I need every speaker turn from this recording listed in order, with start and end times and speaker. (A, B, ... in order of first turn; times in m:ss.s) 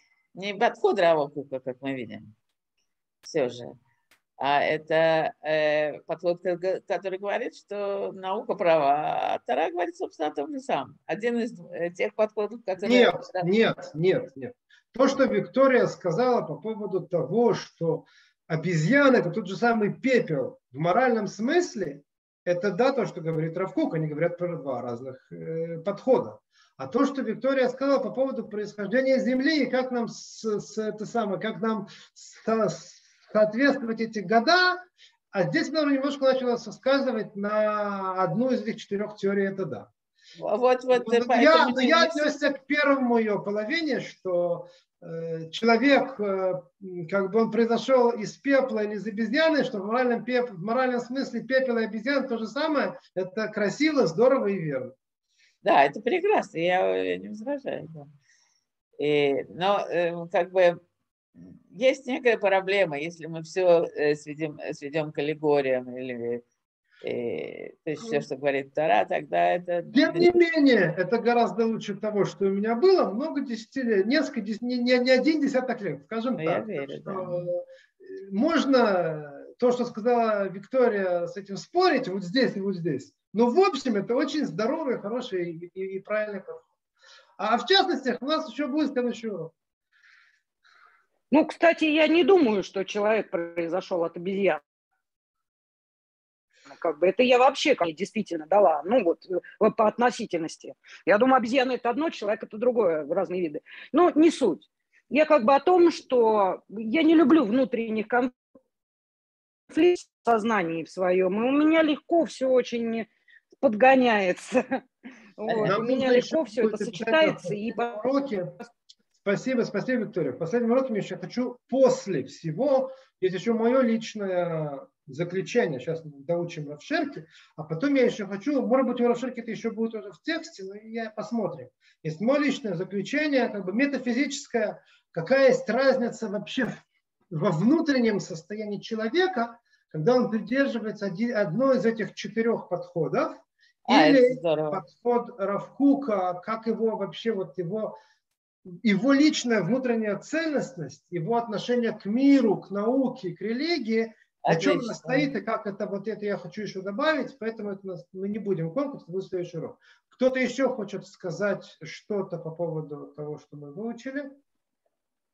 0:00.3-0:02.3 A
0:03.2-0:03.7 A
0:04.4-0:13.5 A
0:12.8-0:39.9 B
0:40.4-0:42.4 A
0:40.9-0:55.0 B
0:55.6-0:58.1 A
0:59.0-1:00.8 A
1:01.4-1:06.4 A
1:07.0-1:10.3 A
1:09.9-1:26.7 B
1:16.4-1:17.5 A
1:27.4-1:29.5 B
1:31.3-1:34.6 C
1:36.7-1:48.3 C
1:49.7-1:53.1 C
1:53.6-1:54.8 C
1:55.4-1:58.0 C
1:55.5-1:55.8 A
1:55.6-1:58.6 B
1:59.2-2:28.0 B
2:23.8-2:24.8 A
2:28.7-2:44.4 B
2:34.4-2:35.3 A